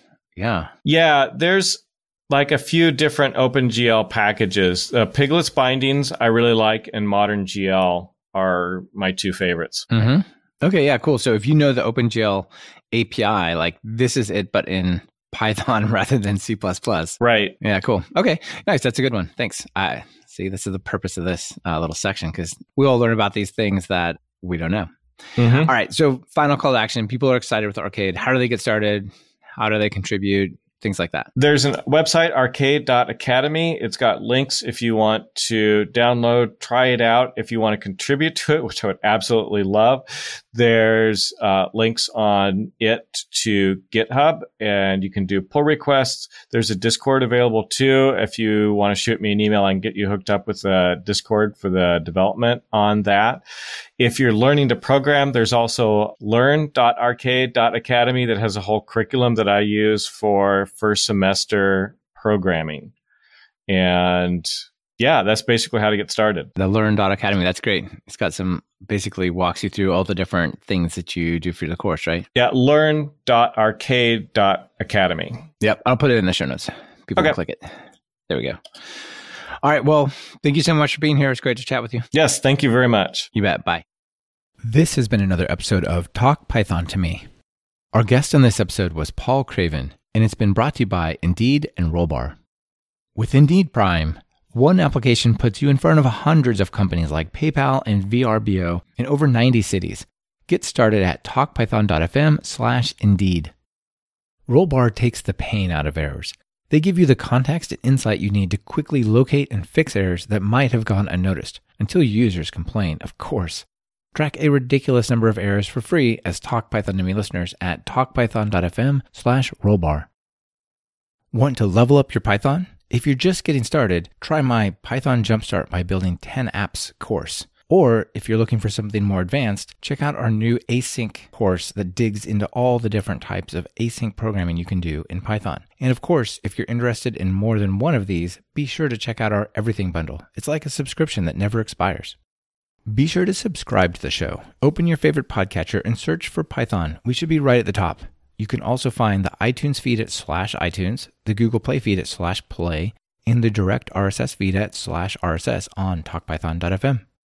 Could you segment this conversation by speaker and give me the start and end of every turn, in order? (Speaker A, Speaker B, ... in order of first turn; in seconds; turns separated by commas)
Speaker A: 0.4-0.7, Speaker B: 0.8-9.9, Speaker A: 9.9-31.3, Speaker B: 17.2-17.6, Speaker B: 25.4-25.7, Speaker B: 31.4-53.4, Speaker B: 54.0-62.9, Speaker B: 63.7-66.5, Speaker A: 66.6-72.3, Speaker B: 72.3-75.5, Speaker A: 75.6-77.8, Speaker A: 78.3-78.6, Speaker A: 79.6-82.1, Speaker B: 82.1-83.3, Speaker A: 83.3-83.8, Speaker A: 84.6-87.2, Speaker A: 87.9-92.4, Speaker A: 93.2-103.5, Speaker A: 104.5-120.1, Speaker A: 121.3-142.2, Speaker A: 142.9-157.0